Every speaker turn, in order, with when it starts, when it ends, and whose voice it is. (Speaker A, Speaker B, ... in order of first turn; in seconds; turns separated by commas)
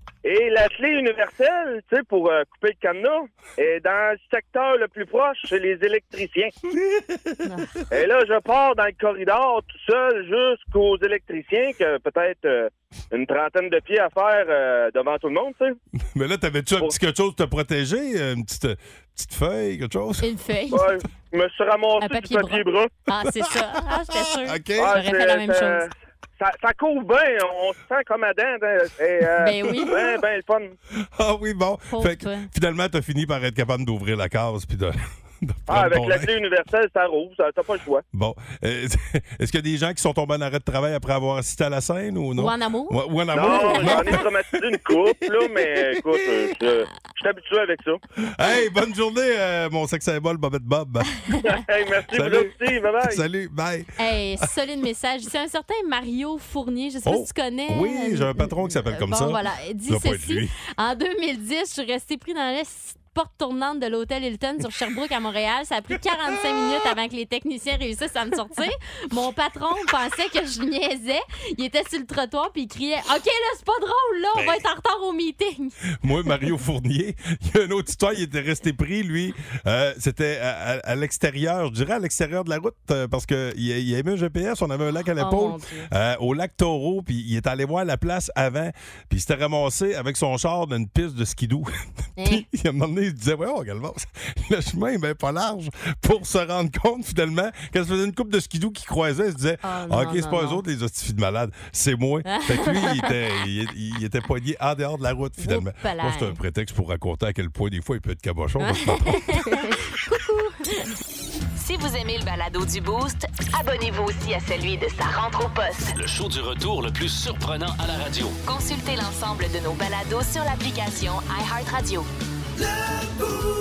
Speaker A: 0.2-6.5, Speaker B: 6.7-7.4, Speaker C: 7.4-7.8, Speaker A: 7.9-15.8, Speaker B: 16.1-20.3, Speaker C: 20.2-20.9, Speaker A: 20.7-22.9, Speaker C: 22.0-25.8, Speaker B: 24.4-25.0, Speaker A: 24.8-30.8, Speaker C: 29.4-30.0, Speaker B: 31.1-36.3, Speaker C: 31.9-32.5, Speaker A: 35.7-38.0, Speaker B: 38.1-44.3, Speaker C: 42.4-44.2, Speaker A: 43.3-48.0, Speaker B: 44.8-46.5, Speaker B: 48.3-51.2, Speaker A: 51.5-53.2, Speaker B: 52.1-54.5, Speaker C: 54.0-75.7, Speaker B: 57.1-60.5, Speaker B: 74.3-74.6, Speaker B: 76.0-91.7, Speaker C: 85.2-85.9, Speaker C: 92.2-92.5, Speaker B: 92.2-109.6, Speaker C: 99.6-100.6, Speaker C: 102.3-103.2, Speaker C: 105.4-106.4, Speaker C: 108.6-110.9, Speaker D: 111.6-115.9, Speaker E: 116.0-118.4, Speaker D: 118.4-122.1